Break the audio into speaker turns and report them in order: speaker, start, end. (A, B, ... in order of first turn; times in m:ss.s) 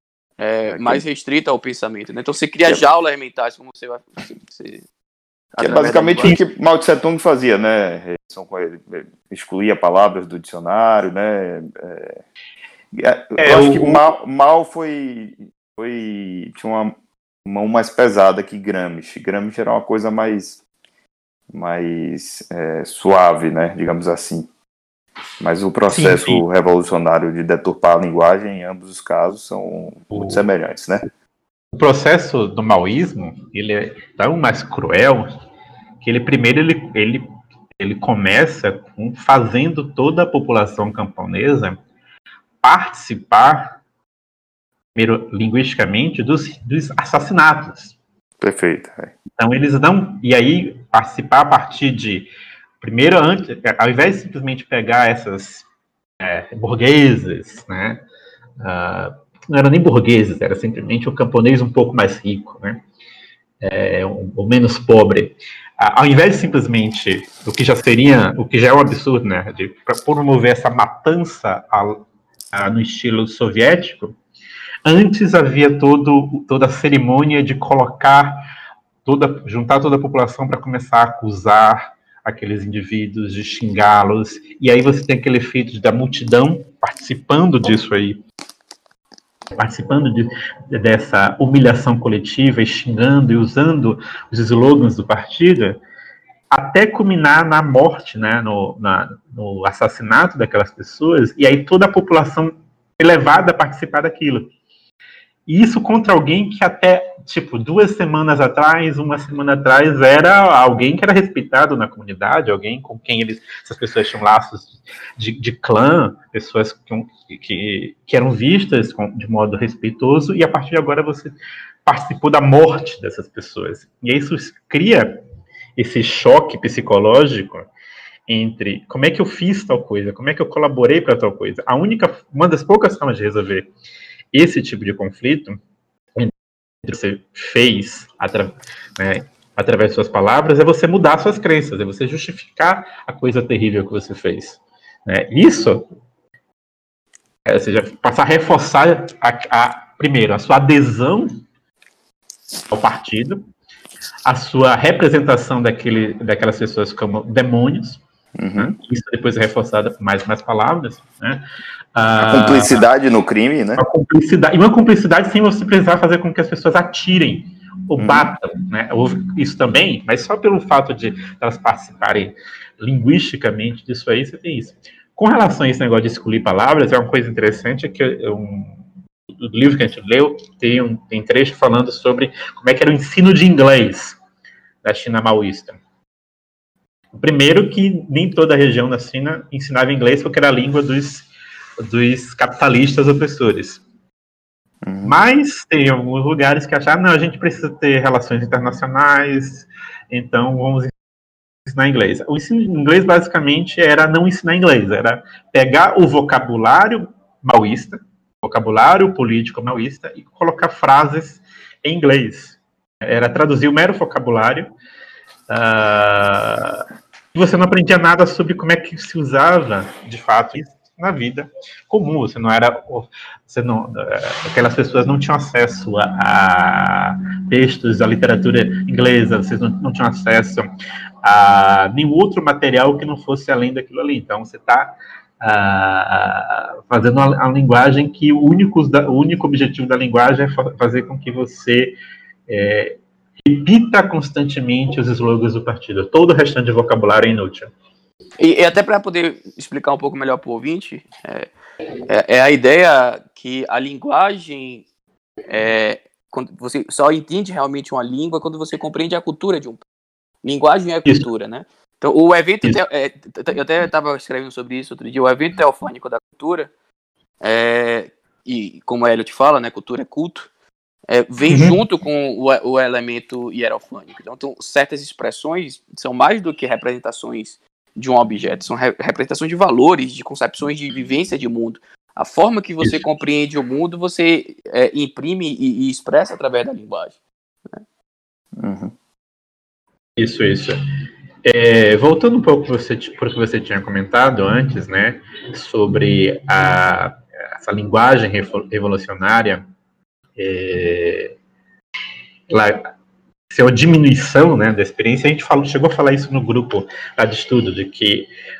0:00.4-0:04.8 A
0:00.7-0:01.0 B
0:05.6-0:06.4 A
0:05.6-0:12.2 B
0:12.9-0:16.9 B
0:13.4-0:14.0 C
0:17.4-0:20.6 B
0:21.5-0:24.5 B
0:25.4-0:31.0 B
0:25.9-0:26.4 C
0:30.1-0:30.4 C
0:31.7-0:35.3 C
0:36.0-0:37.2 C
0:37.8-0:41.8 C
0:42.6-0:43.8 C
0:44.9-0:48.0 C
0:48.4-0:49.1 B
0:49.4-0:52.3 C
0:52.8-0:55.6 C
0:56.2-0:58.0 C
0:58.6-1:02.8 C
1:03.6-1:14.1 C
1:14.8-1:18.5 C
1:19.0-1:28.2 C
1:29.5-1:35.8 C
1:36.5-1:44.5 C
1:45.5-2:05.2 C
2:05.8-2:07.7 C
2:08.3-2:13.7 C
2:14.3-2:15.6 C
2:16.8-2:25.8 C
2:27.4-2:31.4 C
2:32.7-2:33.4 C
2:34.2-2:38.0 C
2:38.4-2:38.7 B
2:38.6-2:41.4 C
2:41.9-2:42.9 C
2:42.2-2:43.8 B
2:43.8-2:58.8 C
2:48.0-2:48.3 B
2:59.4-3:04.2 C
3:04.8-3:05.8 C
3:07.1-3:11.3 C
3:11.8-3:13.8 C
3:14.8-3:15.1 B
3:15.0-3:20.9 C
3:21.6-3:34.7 C
3:35.5-3:50.7 C
3:51.2-4:01.9 C
4:02.5-4:07.7 C
4:08.4-4:11.5 A
4:12.1-4:14.8 A
4:15.5-4:19.8 A
4:20.4-4:26.7 A
4:27.4-4:30.5 A
4:31.1-4:47.2 A
4:31.5-4:31.7 C
4:48.6-4:48.9 B
4:50.2-4:50.8 C
4:51.4-4:59.6 C
5:00.4-5:01.3 C
5:02.5-5:02.9 C
5:03.5-5:08.3 C